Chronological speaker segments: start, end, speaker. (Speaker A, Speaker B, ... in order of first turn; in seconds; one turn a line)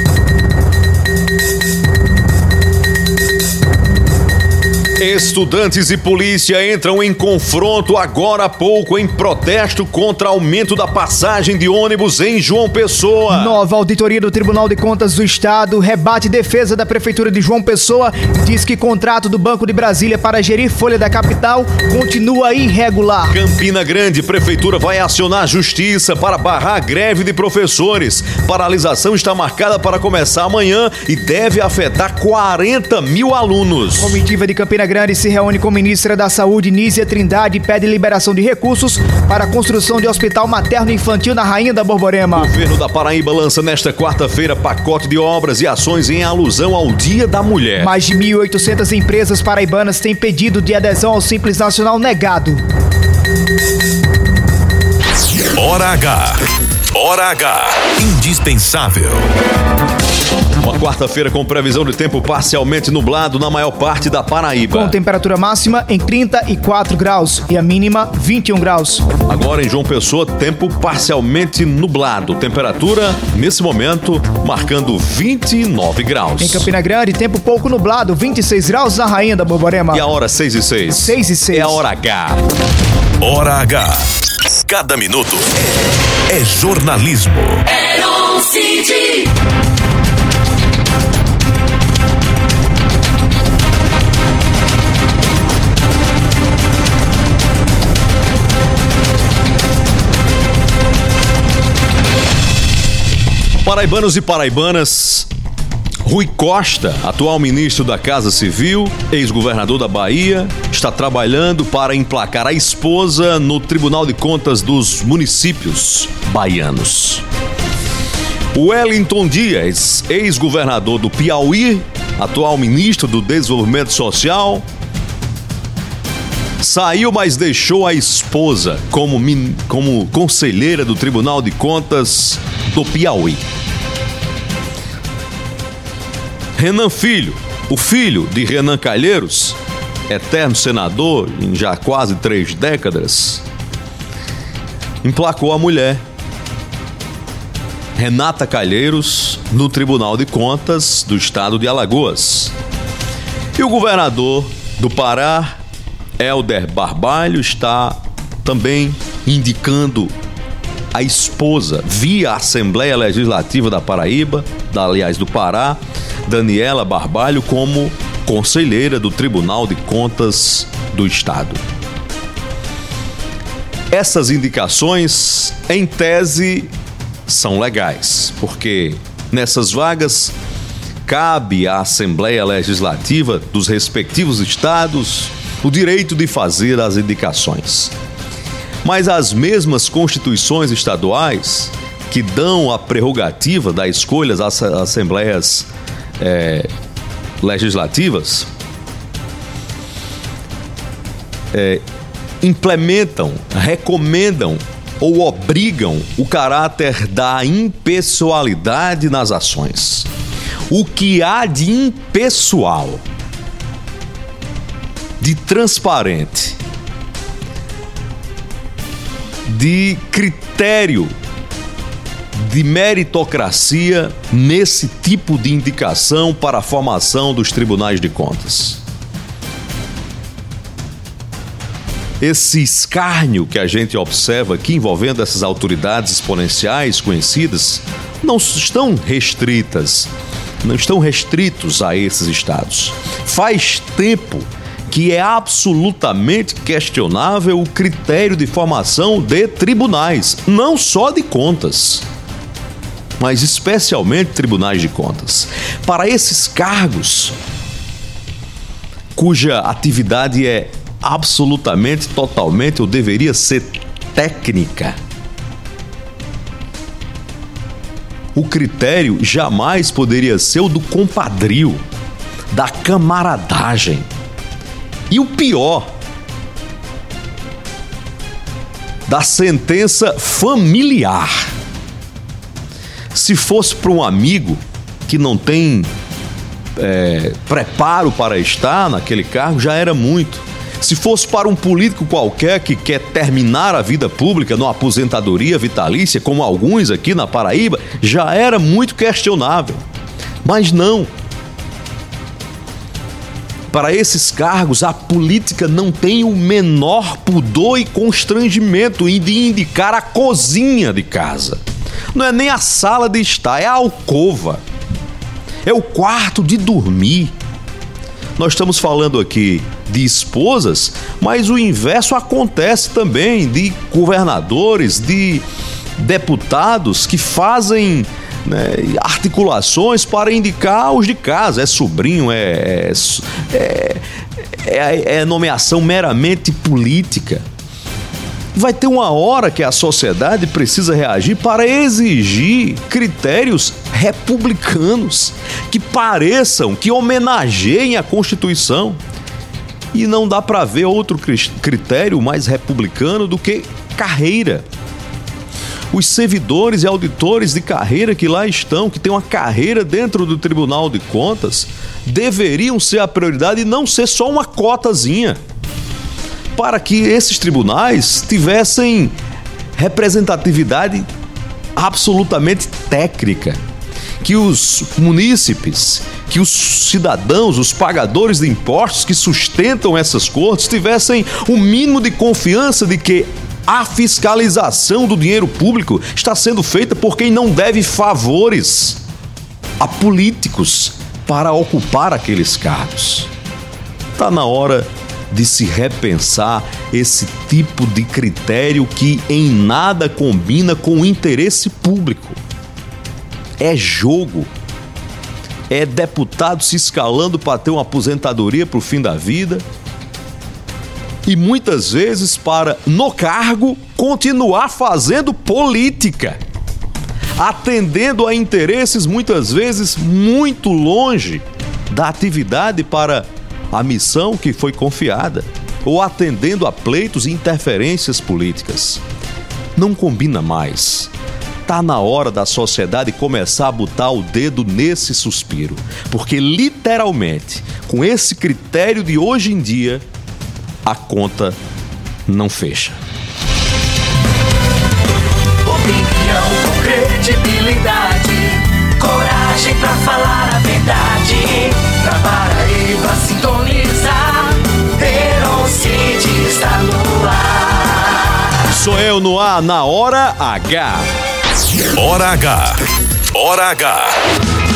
Speaker A: 5.0-13.6
Speaker B: 13.3-23.4
Speaker A: 23.3-34.2
Speaker B: 34.0-42.5
Speaker A: 42.3-47.9
Speaker B: 47.8-52.6
Speaker C: 55.5-56.4
Speaker C: 56.9-59.3
Speaker A: 60.6-65.0
Speaker B: 64.7-69.0
Speaker A: 69.3-76.7
Speaker B: 76.4-80.0
Speaker A: 79.9-82.4
Speaker B: 80.9-81.8
Speaker C: 83.2-84.0
Speaker C: 84.7-85.7
Speaker C: 86.3-87.6
Speaker D: 87.7-89.3
Speaker A: 103.6-105.3
Speaker A: 106.0-117.2
Speaker A: 118.5-124.6
Speaker A: 126.6-133.4
Speaker A: 136.6-143.4
Speaker A: 145.0-146.0
Speaker A: 147.9-152.5
Speaker A: 153.6-155.6
Speaker A: 156.2-160.1
Speaker A: 160.9-171.6
Speaker A: 173.9-176.7
Speaker A: 177.3-180.3
Speaker A: 181.1-187.9
Speaker A: 188.8-195.7
Speaker A: 196.2-196.7
Speaker A: 197.4-198.5
Speaker A: 201.5-201.8
Speaker A: 202.4-210.1
Speaker A: 210.7-213.0
Speaker A: 215.2-216.6
Speaker A: 219.5-221.1
Speaker A: 222.3-228.8
Speaker A: 232.2-240.1
Speaker A: 240.6-252.1
Speaker A: 253.2-257.3
Speaker A: 259.1-265.0
Speaker A: 268.3-271.8
Speaker A: 272.5-274.1
Speaker A: 275.1-275.9
Speaker A: 279.1-281.5
Speaker A: 283.1-285.9
Speaker A: 286.8-299.8
Speaker A: 300.4-301.1
Speaker A: 303.7-311.6
Speaker A: 312.1-314.6
Speaker A: 315.6-317.3
Speaker A: 318.4-325.4
Speaker A: 326.0-334.0
Speaker A: 334.6-337.4
Speaker A: 338.5-349.0
Speaker A: 349.9-354.6
Speaker A: 355.9-365.4
Speaker A: 366.6-369.1
Speaker A: 369.8-371.1
Speaker A: 371.8-373.6
Speaker A: 374.2-389.0
Speaker A: 389.8-393.3
Speaker A: 394.2-402.4
Speaker A: 403.6-404.5
Speaker A: 405.7-409.6
Speaker A: 411.2-416.4
Speaker A: 417.4-429.0
Speaker A: 429.8-431.1
Speaker A: 431.6-440.0
Speaker A: 440.8-441.6
Speaker A: 442.3-443.0
Speaker D: 445.6-458.3
Speaker A: 458.7-461.1
Speaker C: 461.9-462.8
Speaker C: 463.3-464.1